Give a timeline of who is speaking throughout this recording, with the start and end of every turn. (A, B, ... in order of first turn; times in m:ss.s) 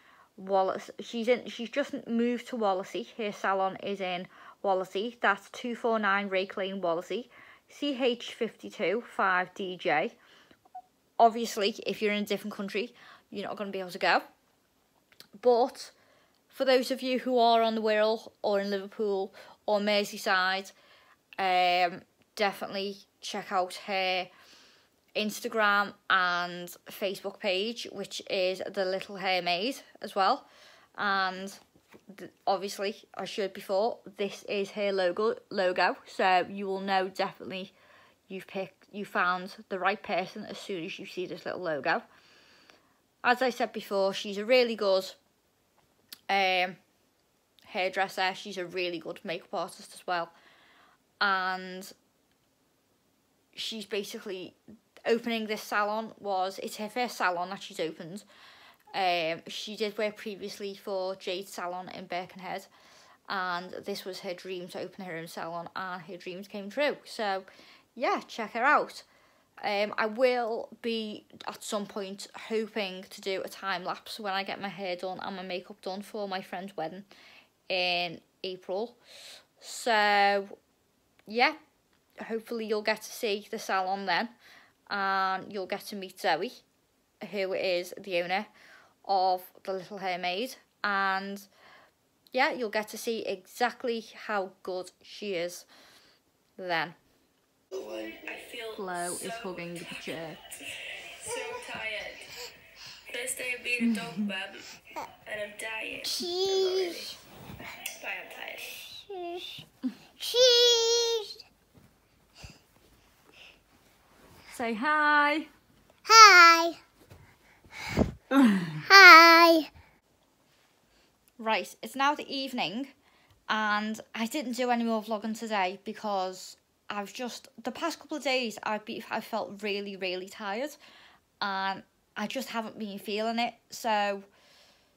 0:00.4-0:10.2 A
0:11.2-0:14.2 A
0:15.4-0:15.9 A
0:16.5-0:20.7 A
0:21.4-0:24.3 A
0:25.1-0:37.7 A
0:38.3-0:42.0 A
0:43.2-0:45.2 A
0:46.3-0:46.8 A
0:47.6-0:50.3 A
0:51.2-0:51.9 A
0:53.5-0:58.2 A
0:58.9-1:02.7 A
1:03.3-1:09.1 A
1:09.6-1:17.1 A
1:17.7-1:19.0 A
1:19.6-1:20.5 A
1:21.3-1:21.6 A
1:22.2-1:24.3 A
1:24.9-1:26.6 A
1:27.2-1:28.5 A
1:29.0-1:31.5 A
1:32.3-1:35.7 A
1:36.6-1:37.0 A
1:37.7-1:38.8 B
1:38.7-1:40.6 A
1:41.0-1:42.4 B
1:43.1-1:44.7 B
1:43.8-1:44.4 A
1:45.2-1:47.1 B
1:46.1-1:47.0 A
1:47.8-1:48.9 B
1:50.0-1:51.3 A
1:54.5-1:55.5 A
1:56.1-1:56.8 B
1:58.3-1:59.2 A
1:59.1-1:59.7 B
2:01.4-2:02.9 A
2:03.5-2:10.8 A
2:11.4-2:14.3 A